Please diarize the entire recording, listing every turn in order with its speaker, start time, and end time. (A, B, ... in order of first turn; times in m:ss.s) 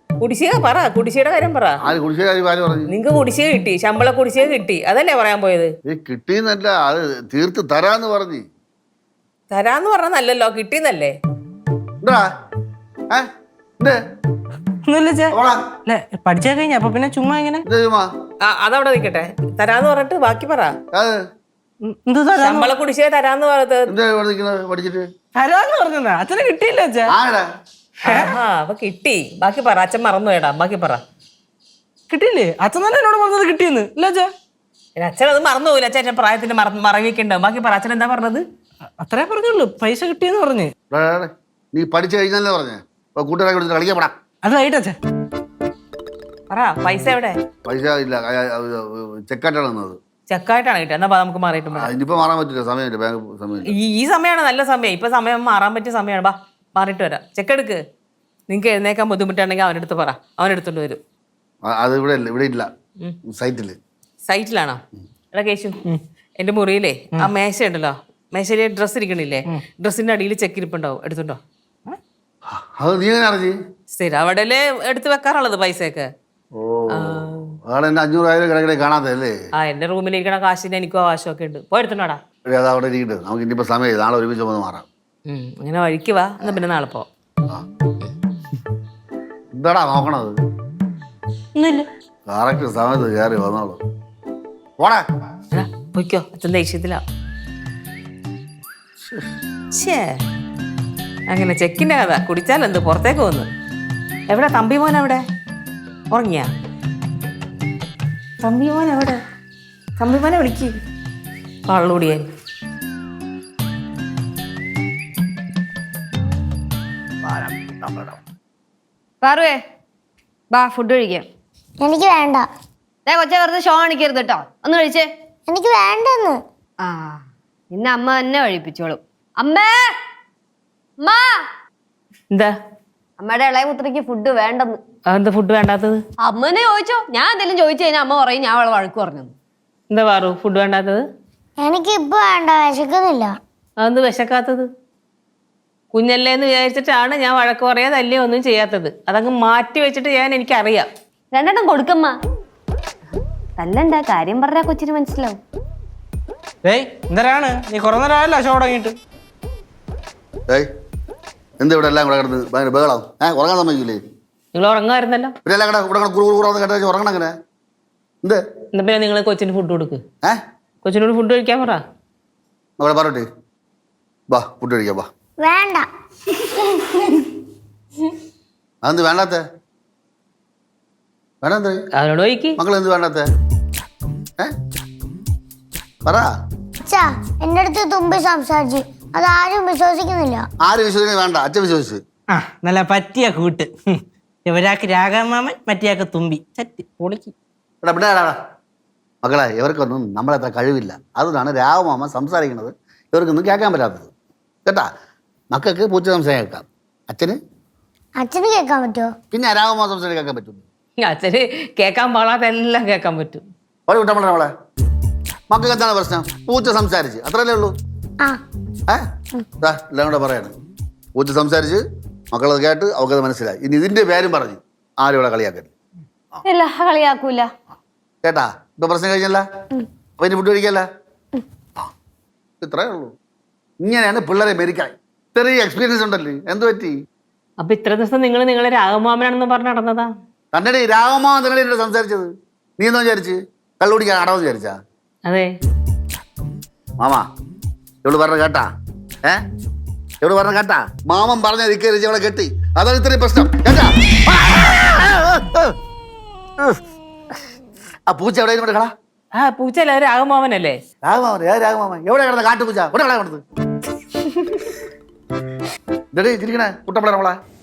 0:00.2-0:01.8 A
0:01.8-0:02.9 B
0:02.9-0:05.7 A
0:05.9-0:08.4 B
0:09.5-0:11.2 A
0:14.8-0:17.6 C
0:15.3-0:15.6 B
0:17.7-0:18.1 B
0:18.4-0:20.7 A
0:20.9-0:21.2 B
0:21.8-0:22.7 C
0:22.4-0:23.9 A
0:23.9-0:25.1 B
0:25.4-0:27.2 C
0:27.1-0:27.4 B
0:28.0-0:28.4 C
0:28.1-0:31.0 A
0:32.1-0:34.3 C
0:35.0-0:38.4 A
0:39.0-0:40.7 C
0:40.9-0:44.1 B
0:44.4-0:45.0 C
0:46.5-0:47.4 A
0:47.7-0:50.0 B
0:50.3-0:51.9 A
0:51.8-0:53.7 B
0:53.7-0:57.8 A
0:58.5-1:01.0 A
1:01.6-1:02.7 B
1:03.3-1:03.8 B
1:04.2-1:04.8 A
1:05.3-1:05.8 A
1:06.4-1:11.4 A
1:12.5-1:13.6 B
1:13.9-1:16.1 A
1:16.6-1:19.3 B
1:17.0-1:17.6 A
1:19.6-1:22.2 A
1:22.5-1:24.9 B
1:25.3-1:27.0 A
1:29.5-1:30.4 B
1:31.6-1:31.9 C
1:32.3-1:33.8 B
1:35.5-1:37.0 A
1:39.7-1:40.2 A
1:41.3-1:43.5 A
1:44.3-1:45.2 A
1:46.1-1:46.5 A
1:48.4-1:49.2 A
1:50.0-1:50.7 A
1:51.7-1:52.2 A
1:57.2-1:58.2 B
1:59.2-1:59.6 D
2:00.5-2:01.3 D
2:01.8-2:02.5 E
2:03.1-2:05.1 D
2:05.5-2:06.4 E
2:06.8-2:07.2 D
2:07.7-2:09.9 D
2:11.0-2:11.3 D
2:13.2-2:14.8 D
2:15.1-2:16.0 A
2:16.2-2:19.3 D
2:19.9-2:21.0 A
2:21.6-2:23.4 E
2:23.8-2:24.7 A
2:25.9-2:30.9 A
2:31.3-2:32.2 D
2:33.6-2:35.4 D
2:36.6-2:39.0 C
2:41.6-2:44.0 B
2:44.5-2:45.3 A
2:45.4-2:47.3 B
2:48.7-2:50.0 A
2:50.8-2:51.8 A
2:52.8-2:53.3 B
2:54.3-2:55.1 B
2:55.4-2:55.9 E
2:58.8-2:59.4 B
3:01.4-3:01.8 B
3:02.0-3:02.6 A
3:02.6-3:03.3 B
3:06.8-3:10.5 E
3:10.6-3:12.0 B
3:12.3-3:17.3 C
3:17.8-3:18.4 B
3:19.2-3:24.1 B
3:25.5-3:27.4 B
3:28.2-3:29.1 E
3:29.3-3:30.6 B
3:31.0-3:33.4 A
3:33.9-3:34.5 B
3:35.5-3:37.7 B
3:39.6-3:40.5 B
3:41.2-3:45.7 B
3:46.4-3:47.5 D
3:48.2-3:49.4 B
3:50.2-3:50.9 B
3:52.6-3:53.1 B
3:53.8-3:56.9 B
3:57.6-4:00.1 A
4:00.5-4:04.8 B
4:08.0-4:08.7 B
4:10.2-4:15.7 B
4:18.1-4:18.9 B
4:19.4-4:20.8 A
4:21.0-4:23.4 B
4:26.1-4:27.4 B